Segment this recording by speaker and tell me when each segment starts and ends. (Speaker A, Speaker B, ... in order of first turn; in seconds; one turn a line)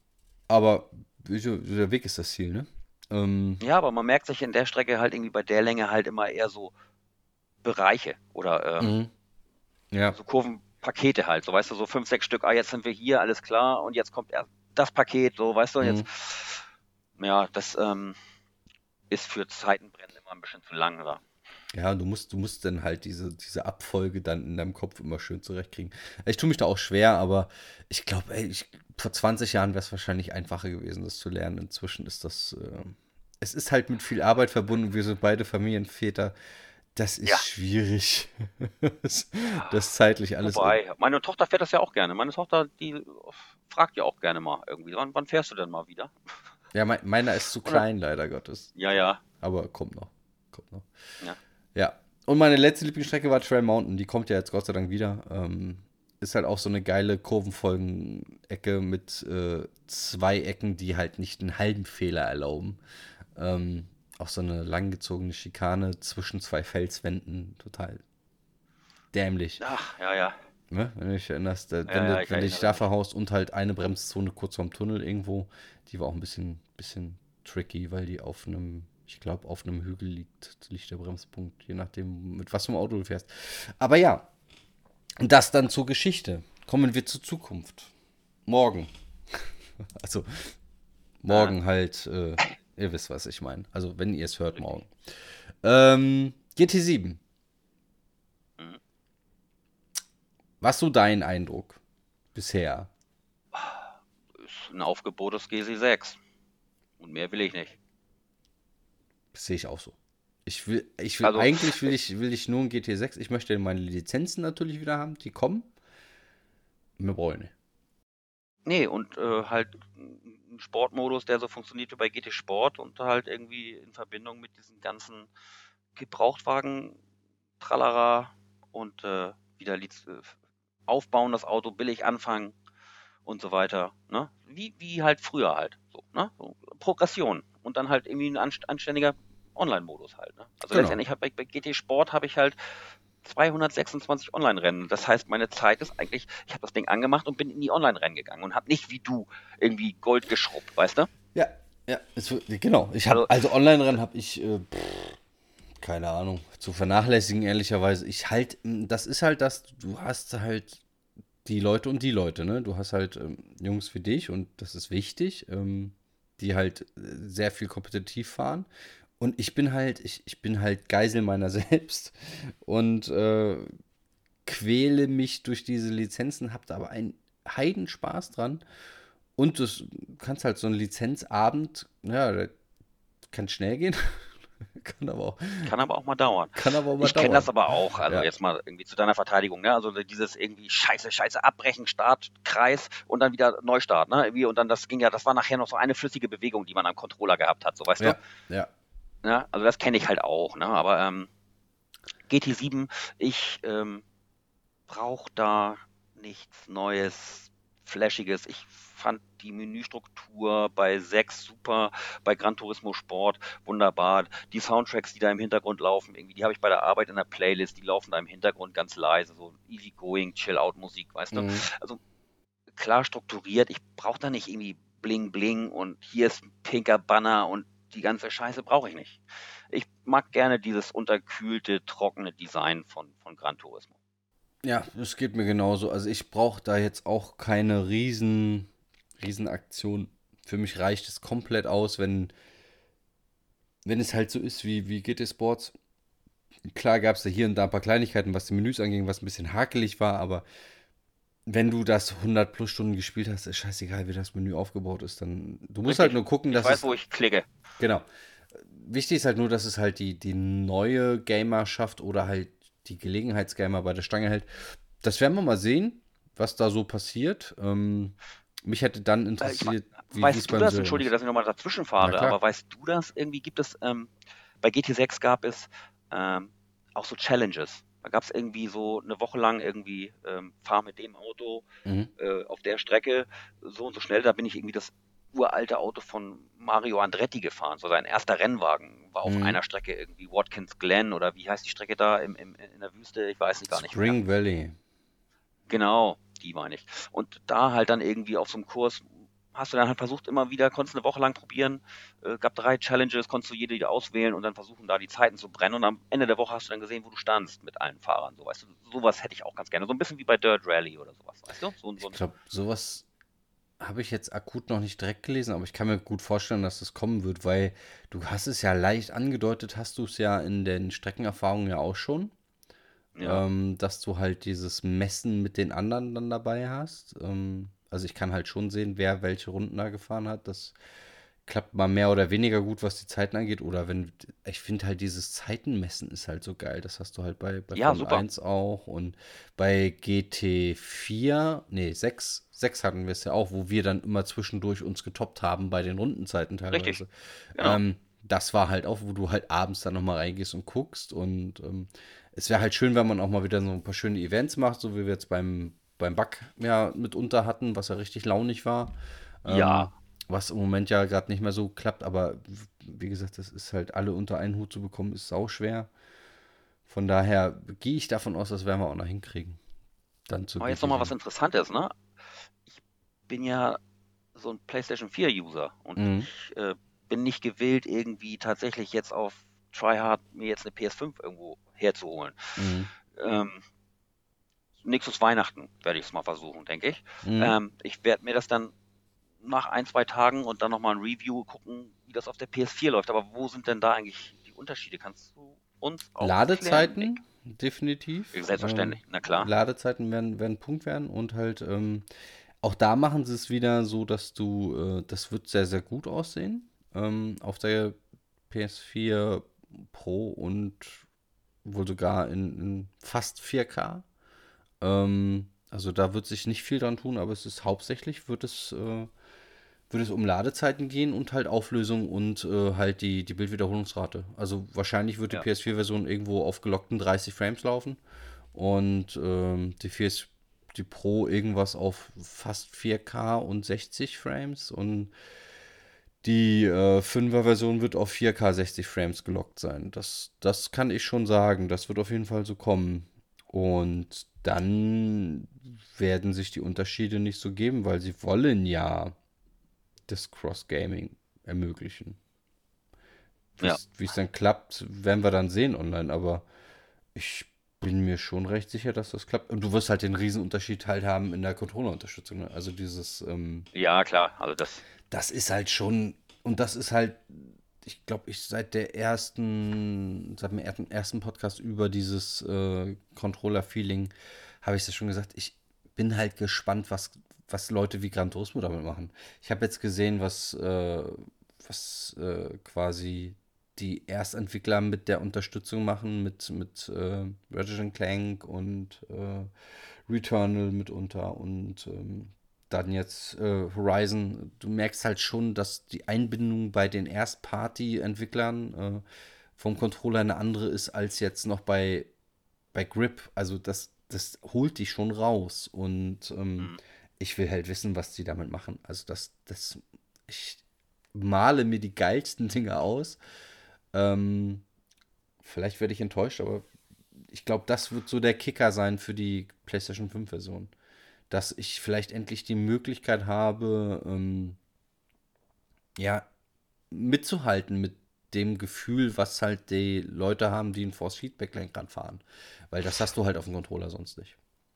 Speaker A: 0.5-3.6
Speaker B: 3.6-6.7
Speaker B: 7.6-8.9
Speaker A: 8.8-9.1
Speaker A: 9.9-10.2
Speaker B: 10.1-16.6
Speaker A: 15.8-16.1
Speaker B: 17.2-18.2
Speaker B: 19.1-21.2
Speaker A: 21.7-36.3
Speaker A: 36.9-40.8
Speaker B: 39.5-39.7
Speaker B: 40.4-46.1
Speaker A: 46.7-50.9
Speaker B: 48.8-49.2
Speaker A: 51.7-62.8
Speaker A: 63.3-68.0
Speaker A: 69.1-69.6
Speaker B: 69.6-70.4
Speaker A: 70.7-84.3
Speaker B: 71.8-72.8
Speaker A: 85.2-87.9
Speaker A: 88.5-90.5
Speaker A: 91.2-94.9
Speaker B: 91.3-91.5
Speaker A: 95.6-97.2
Speaker A: 100.6-101.8
Speaker A: 102.3-102.9
Speaker B: 103.5-106.2
Speaker B: 107.0-107.8
Speaker A: 109.3-115.7
Speaker B: 111.2-111.9
Speaker A: 117.0-117.5
Speaker B: 118.7-125.3
Speaker B: 125.9-127.0
Speaker B: 127.6-130.3
Speaker B: 130.9-132.6
Speaker B: 133.2-142.6
Speaker A: 140.7-141.0
Speaker B: 143.2-151.1
Speaker A: 151.3-155.2
Speaker A: 155.8-160.8
Speaker A: 161.4-168.7
Speaker A: 169.2-173.7
Speaker A: 174.4-178.6
Speaker A: 179.4-182.5
Speaker A: 183.3-185.7
Speaker B: 185.6-198.2
Speaker A: 186.5-188.3
Speaker A: 198.0-198.7
Speaker B: 199.2-201.3
Speaker B: 202.3-204.0
Speaker B: 204.9-222.0
Speaker A: 221.3-221.7
Speaker B: 222.7-233.9
Speaker A: 234.6-242.3
Speaker A: 243.8-245.7
Speaker A: 246.7-250.4
Speaker A: 251.5-256.8
Speaker B: 255.8-257.4
Speaker A: 257.8-271.1
Speaker B: 269.4-274.1
Speaker A: 272.0-272.4
Speaker B: 274.6-281.6
Speaker A: 281.8-282.1
Speaker B: 282.2-294.2
Speaker A: 289.2-289.6
Speaker A: 293.7-294.8
Speaker B: 295.7-312.2
Speaker A: 312.0-313.1
Speaker A: 313.8-322.3
Speaker B: 323.1-323.4
Speaker A: 323.2-330.8
Speaker A: 331.4-365.9
Speaker B: 337.7-338.2
Speaker B: 346.7-347.0
Speaker B: 347.6-347.8
Speaker B: 359.4-359.9
Speaker A: 366.9-369.6
Speaker A: 370.3-371.1
Speaker B: 370.6-372.0
Speaker B: 372.6-373.8
Speaker B: 374.4-382.6
Speaker A: 376.0-376.3
Speaker A: 382.6-382.9
Speaker B: 383.1-383.6
Speaker B: 384.8-388.7
Speaker A: 387.2-387.6
Speaker B: 389.4-397.2
Speaker A: 396.2-402.1
Speaker B: 398.3-399.5
Speaker A: 402.6-407.9
Speaker A: 408.5-411.0
Speaker A: 411.6-414.1
Speaker A: 414.8-419.1
Speaker A: 419.9-428.0
Speaker A: 428.5-435.1
Speaker A: 436.2-449.1
Speaker A: 450.1-452.2
Speaker A: 453.6-456.4
Speaker A: 457.1-463.6
Speaker B: 463.7-464.8
Speaker A: 465.1-474.1
Speaker A: 474.6-489.5
Speaker A: 490.1-499.0
Speaker A: 499.6-502.1
Speaker A: 502.7-510.6
Speaker A: 511.1-513.2
Speaker A: 513.9-514.6
Speaker A: 515.4-516.7
Speaker A: 517.3-520.7
Speaker A: 521.3-524.6
Speaker A: 526.0-526.3
Speaker A: 526.9-534.4